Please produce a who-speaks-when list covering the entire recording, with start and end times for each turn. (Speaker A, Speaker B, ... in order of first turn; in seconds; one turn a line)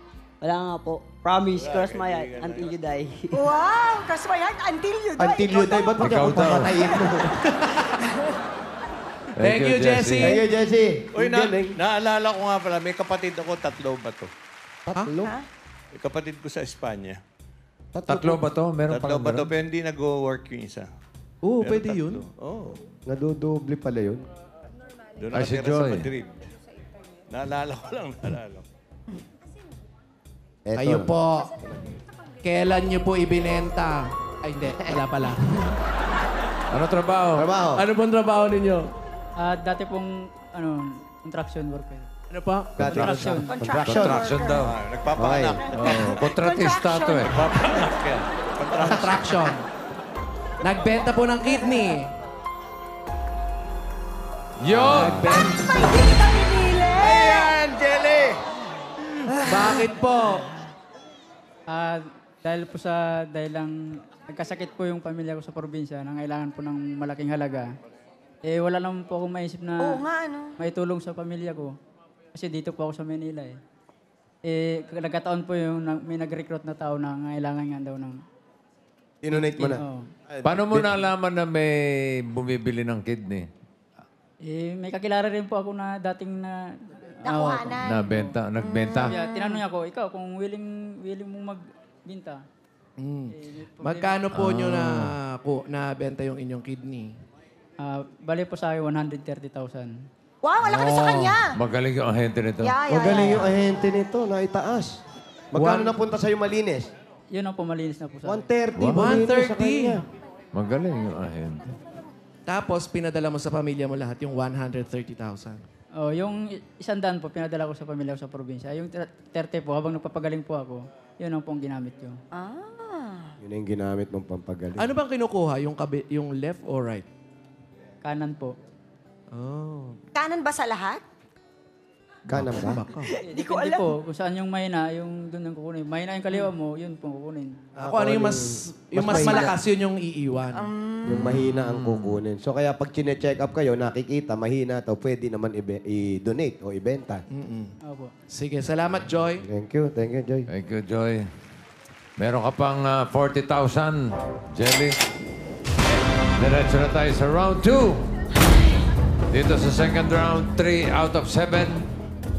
Speaker A: 0.4-3.4
Speaker B: 1.6-2.9
Speaker C: 3.3-6.1
Speaker D: 5.2-7.3
Speaker E: 6.0-6.7
Speaker C: 6.7-7.1
Speaker F: 7.6-8.0
Speaker E: 9.4-10.4
Speaker F: 9.4-10.4
Speaker D: 10.2-11.8
Speaker B: 11.1-14.3
Speaker D: 14.9-15.3
Speaker B: 15.9-17.2
Speaker D: 17.9-18.4
Speaker E: 18.1-19.5
Speaker B: 18.9-20.9
Speaker F: 21.4-22.2
Speaker B: 21.6-22.8
Speaker D: 23.1-24.2
Speaker B: 25.2-26.4
Speaker E: 25.3-26.1
Speaker B: 27.3-28.6
Speaker D: 30.7-31.1
Speaker F: 30.8-31.5
Speaker F: 32.4-35.7
Speaker E: 36.7-37.5
Speaker D: 37.4-37.8
Speaker F: 37.8-38.9
Speaker G: 39.4-42.0
Speaker F: 42.3-43.3
Speaker D: 42.8-44.3
Speaker G: 42.9-43.5
Speaker C: 43.3-44.6
Speaker E: 43.9-44.8
Speaker B: 44.6-46.2
Speaker D: 45.2-45.6
Speaker C: 45.6-47.7
Speaker E: 45.8-47.5
Speaker B: 47.2-49.5
Speaker F: 48.8-49.6
Speaker F: 50.6-52.1
Speaker E: 54.6-55.3
Speaker F: 54.7-56.1
Speaker C: 55.1-57.5
Speaker B: 57.0-58.4
Speaker F: 59.5-60.4
Speaker G: 61.7-63.8
Speaker G: 64.3-67.7
Speaker G: 68.5-70.0
Speaker C: 69.8-70.5
Speaker G: 70.6-71.7
Speaker G: 72.3-73.6
Speaker G: 74.4-78.2
Speaker D: 79.2-81.0
Speaker G: 79.4-80.1
Speaker E: 80.4-83.5
Speaker G: 84.5-86.5
Speaker C: 87.2-88.0
Speaker G: 87.2-88.3
Speaker E: 87.8-89.2
Speaker C: 88.6-89.6
Speaker G: 89.0-92.4
Speaker F: 93.0-97.1
Speaker G: 93.4-94.3
Speaker E: 94.3-95.1
Speaker G: 97.8-99.9
Speaker C: 100.4-101.6
Speaker E: 101.0-102.8
Speaker C: 102.6-103.5
Speaker D: 102.9-105.0
Speaker D: 105.5-106.9
Speaker F: 105.6-106.0
Speaker G: 107.3-108.4
Speaker D: 108.3-110.0
Speaker E: 108.8-109.1
Speaker F: 108.9-110.0
Speaker E: 110.5-111.7
Speaker F: 112.5-115.6
Speaker G: 116.0-122.1
Speaker C: 122.3-123.3
Speaker D: 123.4-124.9
Speaker F: 124.8-127.1
Speaker G: 128.0-128.5
Speaker F: 129.3-130.0
Speaker C: 130.1-131.0
Speaker D: 132.3-132.8
Speaker F: 132.6-133.1
Speaker G: 133.3-137.6
Speaker C: 133.3-133.9
Speaker F: 137.8-140.7
Speaker D: 137.8-139.6
Speaker C: 139.1-139.5
Speaker C: 140.5-141.4
Speaker D: 141.1-147.2
Speaker E: 141.3-142.2
Speaker F: 147.3-147.7
Speaker F: 148.3-149.4
Speaker D: 149.4-150.5
Speaker E: 150.5-151.3
Speaker E: 152.2-155.0
Speaker E: 156.4-158.1
Speaker E: 159.3-161.8